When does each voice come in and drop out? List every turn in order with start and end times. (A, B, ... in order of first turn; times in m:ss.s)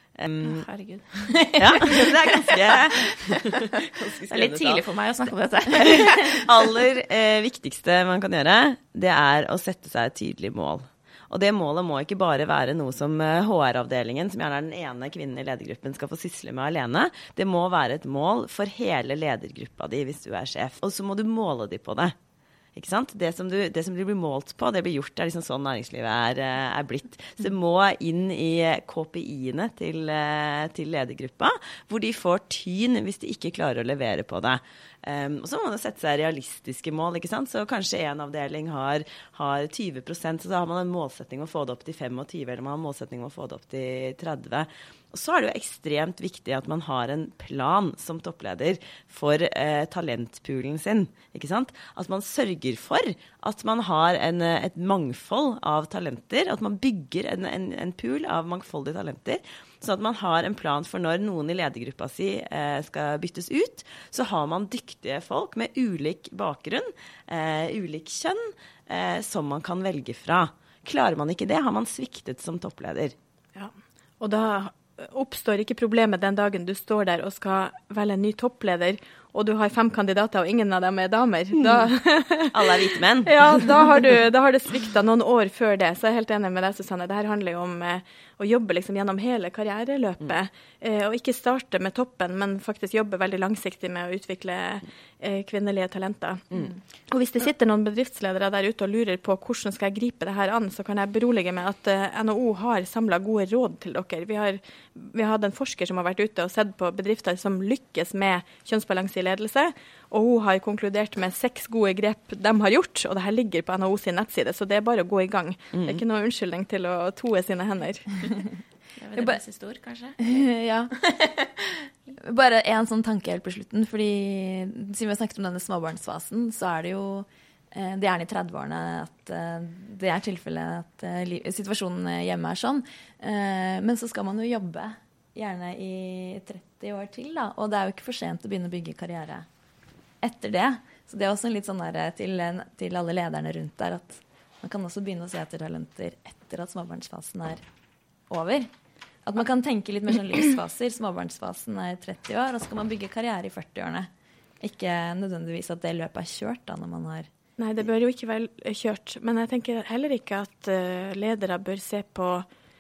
0:00.2-0:00.7 A
0:00.4-0:02.6 B
0:01.6-0:04.8 A
0:04.3-0:06.7 B
0:05.7-0:22.2 A
0:22.8-1:13.1 A
1:13.6-1:58.2 C
1:22.5-1:23.7 A
1:55.7-1:56.0 A
1:59.0-2:00.4 B
2:00.2-2:19.5 D
2:20.2-2:27.6 D
2:28.3-2:28.7 D
2:29.2-2:34.1 D
2:34.6-2:37.3 D
2:37.6-2:42.5 C